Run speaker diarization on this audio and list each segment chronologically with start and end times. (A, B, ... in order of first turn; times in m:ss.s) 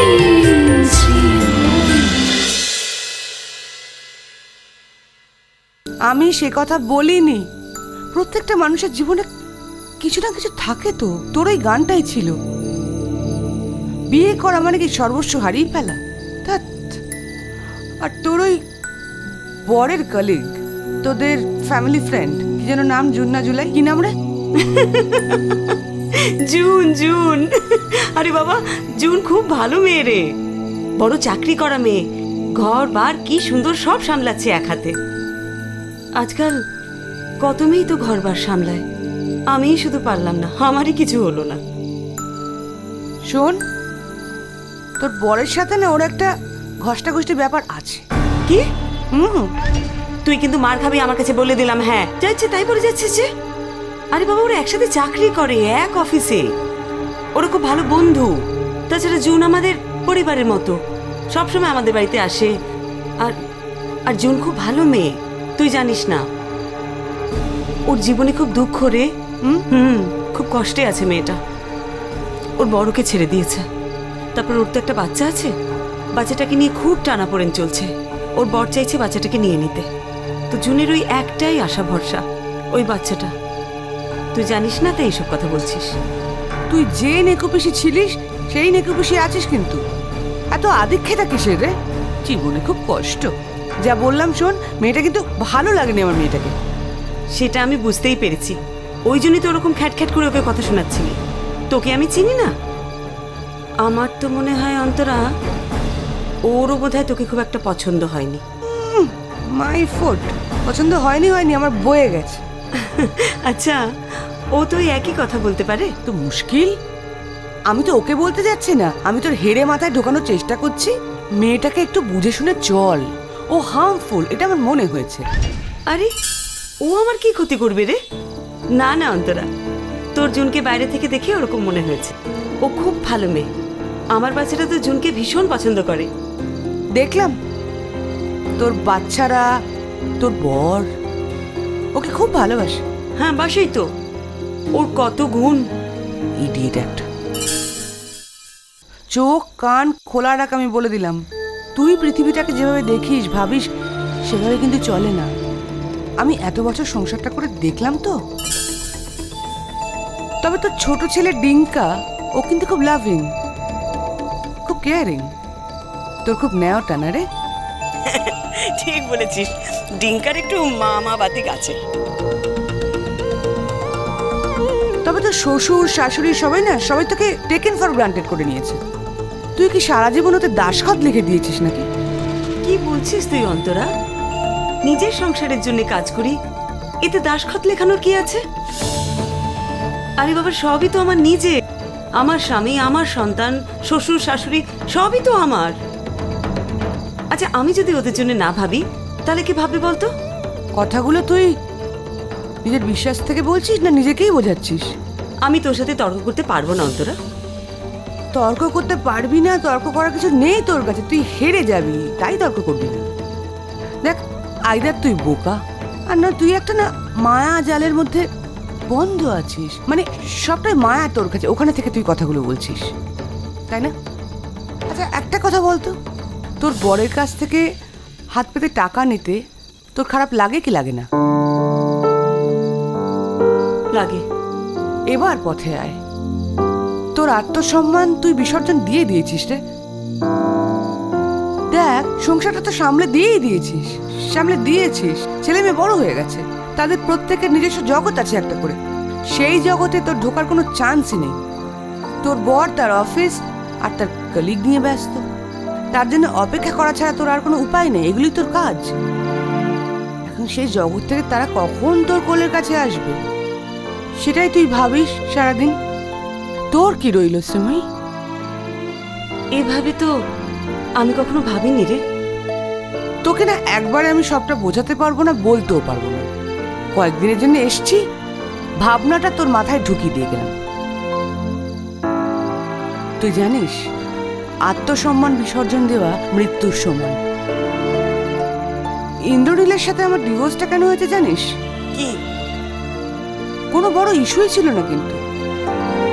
0:06.1-0:07.5 A
0:08.1-0:09.3 A
0:10.0-0:12.4 A
0:14.1-0:17.0 A
0:18.0-0:18.6 A
0:19.7-0:24.1 A
0:24.6-0:30.2 B
0:31.0-0:32.0 B
0:32.6-0:35.0 B
0:36.2-0:36.6 B
0:37.4-0:38.8 B
0:39.5-0:41.6 B
0:43.3-0:43.6 A
0:45.0-0:46.3 A
0:46.8-0:48.0 A
0:49.1-0:49.5 A
0:50.3-0:53.3 B
0:54.1-0:56.5 B
0:57.4-0:58.4 B
0:58.9-1:00.8 B
1:01.3-1:02.5 B
1:04.1-1:06.2 B
1:07.9-1:09.1 B
1:09.7-1:11.4 B
1:12.6-1:13.7 B
1:14.4-1:15.5 B
1:16.2-1:19.9 B
1:20.5-1:22.2 B
1:22.8-1:23.3 B
1:24.4-1:26.0 B
1:26.7-1:29.8 A
1:30.5-1:31.7 A
1:32.3-1:33.3 A
1:33.8-1:36.5 A
1:37.4-1:41.2 B
1:41.7-1:42.5 B
1:43.8-1:45.2 B
1:46.5-1:48.4 B
1:48.7-1:52.4 A
1:52.8-1:53.8 B
1:54.6-1:55.9 B
1:56.1-1:56.8 A
1:57.7-2:05.3 A
2:06.8-2:08.0 B
2:08.8-2:09.5 B
2:10.2-2:13.5 B
2:14.2-2:16.1 B
2:17.0-2:17.4 A
2:18.6-2:19.5 A
2:20.2-2:20.9 A
2:22.0-2:22.8 A
2:23.2-2:23.8 B
2:24.8-2:25.6 B
2:26.4-2:27.1 A
2:29.1-2:31.2 A
2:31.8-2:33.7 A
2:34.3-2:35.3 A
2:36.2-2:38.2 A
2:40.4-2:43.3 A
2:44.6-2:45.3 A
2:46.2-2:47.2 A
2:48.1-2:51.8 B
2:55.0-2:58.8 A
2:59.6-3:01.9 A
3:02.6-3:03.9 B
3:04.8-3:06.4 B
3:07.0-3:08.4 B
3:10.2-3:11.6 B
3:12.2-3:15.7 B
3:17.3-3:20.1 B
3:20.8-3:21.5 A
3:22.6-3:24.9 A
3:25.4-3:27.2 B
3:28.3-3:33.1 A
3:34.0-3:38.3 A
3:38.9-3:42.9 A
3:43.7-3:43.9 A
3:44.9-3:46.0 A
3:46.6-3:47.6 A
3:48.4-3:49.4 A
3:50.0-3:51.1 A
3:53.9-3:54.2 B
3:55.1-3:56.0 A
3:57.2-3:59.6 A
4:01.7-4:08.8 A
4:09.3-4:11.4 A
4:12.2-4:15.2 A
4:15.9-4:18.9 A
4:20.2-4:23.2 A
4:24.2-4:25.8 A
4:26.7-4:27.8 A
4:29.6-4:30.1 B
4:31.0-4:32.0 B
4:33.2-4:36.3 A
4:37.0-4:38.0 A
4:38.8-4:40.5 A
4:43.2-4:43.8 A
4:44.7-4:47.2 A
4:49.3-4:51.5 A
4:53.7-4:55.2 A